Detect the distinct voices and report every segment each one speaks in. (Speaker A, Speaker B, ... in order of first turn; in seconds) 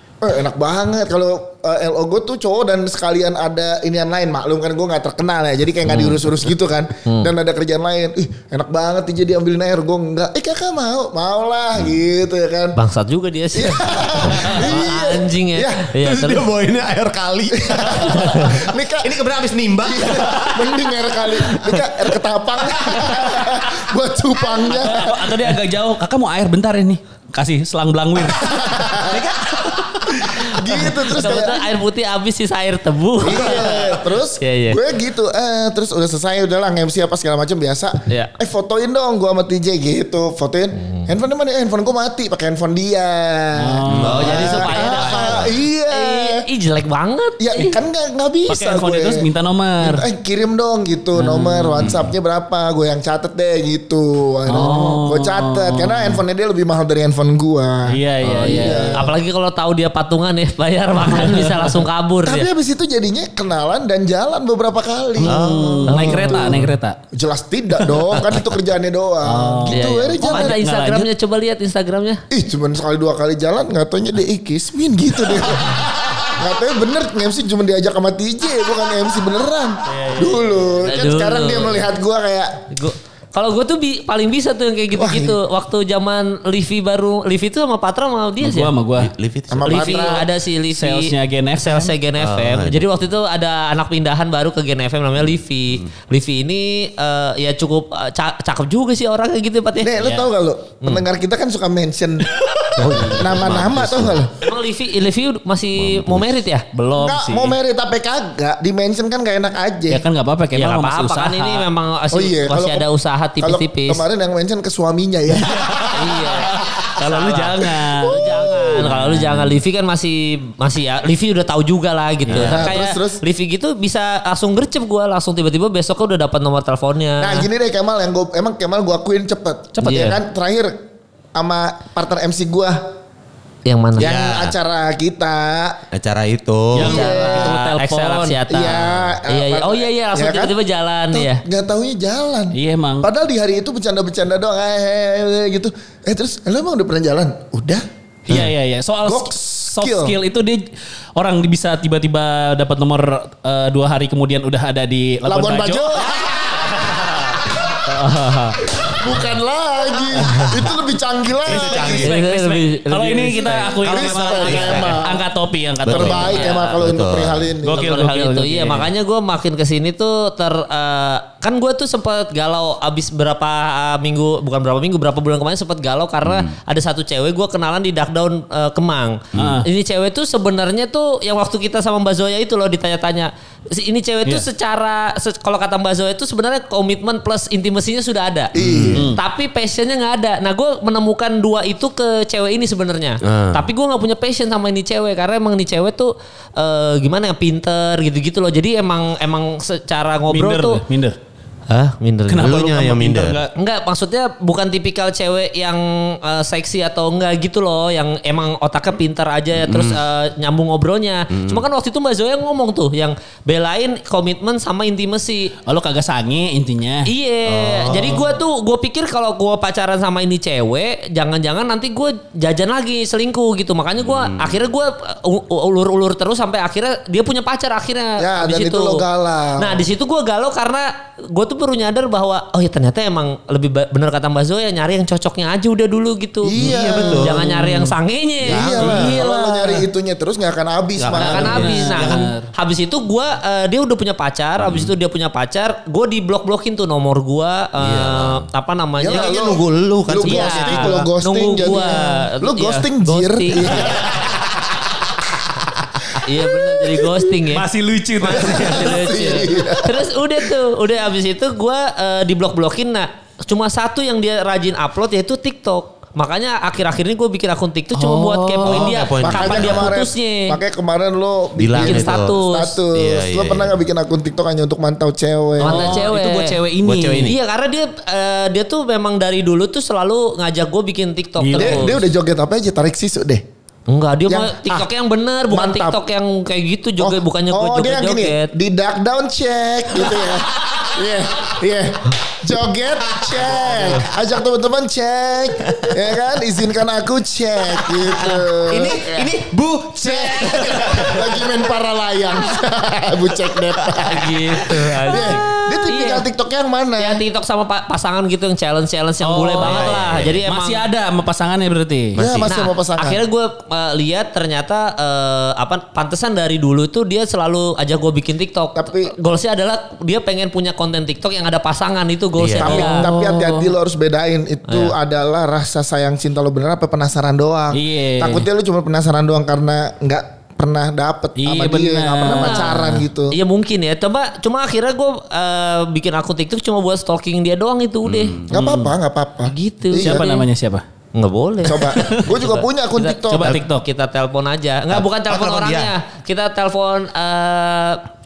Speaker A: 0.2-12.8, 13.5-15.9, 17.5-19.2, 19.8-25.5, 28.4-29.3, 30.2-31.7, 33.2-46.4, 47.4-49.2, 49.8-59.1, 62.2-70.6, 72.3-82.6, 84.9-85.4, 89.5-90.3, 99.8-104.3, 107.0-110.0, 112.1-112.9, 113.4-116.3, 118.0-118.9, 122.4-123.2, 127.2-130.8, 131.4-132.9, 134.0-135.8, 136.8-137.7, 138.5-140.6, 141.1-148.5, 149.0-150.2, 155.2-156.4, 158.8-162.1, 163.8-165.2, 165.8-167.9, 188.5-189.1, 228.2-229.9, 236.4-237.4, 238.4-241.7, 249.0-254.4, 256.3-257.2, 258.3-260.2, 269.2-276.0, 281.6-283.4, 284.3-284.9, 285.5-286.0, 287.0-299.1, 299.9-307.2, 312.2-313.2, 318.8-319.1, 322.6-333.4, 338.5-340.2, 341.6-343.6
Speaker B: 7.1-7.3, 12.8-16.5, 31.1-34.8, 44.2-47.7, 58.2-62.5, 65.9-66.5, 69.7-72.2, 80.8-81.8, 82.7-88.7, 89.7-100.0, 104.4-106.7, 110.5-114.0, 115.9-127.5, 129.8-130.2, 133.7-134.1, 137.0-141.4, 157.9-158.5, 162.0-163.8, 166.3-166.8, 167.7-188.5, 189.1-200.8, 201.7-202.6, 203.6-215.5, 217.1-229.0, 229.6-238.8, 241.1-249.3, 250.2-254.0, 256.2-257.7, 258.2-270.6, 271.7-272.8, 275.6-276.6, 277.2-282.0, 283.9-288.5, 304.0-306.2, 307.0-310.8, 312.5-323.1, 324.7-324.9, 332.4-332.7, 333.3-338.4, 339.5-340.4, 341.1-341.9, 343.0-348.0
Speaker C: 15.9-21.9, 22.8-23.6, 29.1-30.0, 43.9-45.5, 51.8-52.1, 65.3-66.0, 89.0-90.1, 92.2-92.9, 102.8-104.2, 105.8-106.3, 122.3-122.6, 134.0-134.6, 135.9-137.0, 156.5-156.9, 161.5-162.3, 163.8-165.0, 165.8-167.5, 176.2-176.5, 179.3-179.6, 188.6-189.0, 193.2-193.7, 202.4-203.4, 209.6-210.0, 211.3-211.6, 217.5-218.3, 224.0-224.6, 236.6-237.5, 238.4-239.2, 241.0-242.2, 244.6-244.9, 247.8-248.4, 249.1-251.1, 268.6-269.9, 271.6-272.4, 272.9-273.8, 276.8-277.4, 293.1-294.0, 298.7-301.5, 309.6-310.4, 312.2-312.5, 338.0-338.5, 344.9-345.9
Speaker D: 24.7-29.1, 43.6-45.1, 48.5-50.0, 51.1-51.8, 54.5-56.2, 57.9-59.1, 61.0-61.8, 65.2-67.0, 69.2-71.1, 79.9-80.6, 88.4-89.1, 90.7-91.9, 102.8-103.5, 106.7-107.6, 109.9-111.7, 115.5-115.9, 116.4-118.2, 118.8-119.5, 129.7-130.0, 136.7-138.4, 142.5-143.1, 148.3-150.7, 151.2-156.1, 157.9-158.5, 161.6-166.6, 167.6-168.9, 179.3-179.7, 188.9-189.2, 200.3-201.2, 202.3-203.5, 215.7-217.1, 237.6-237.9, 238.8-239.8, 241.2-242.4, 257.5-259.1, 267.9-268.9, 275.6-277.3, 281.4-281.9, 309.2-312.2, 322.6-323.7, 327.7-328.5, 331.4-333.1, 338.5-338.9, 340.0-340.8, 342.0-342.4, 343.3-343.8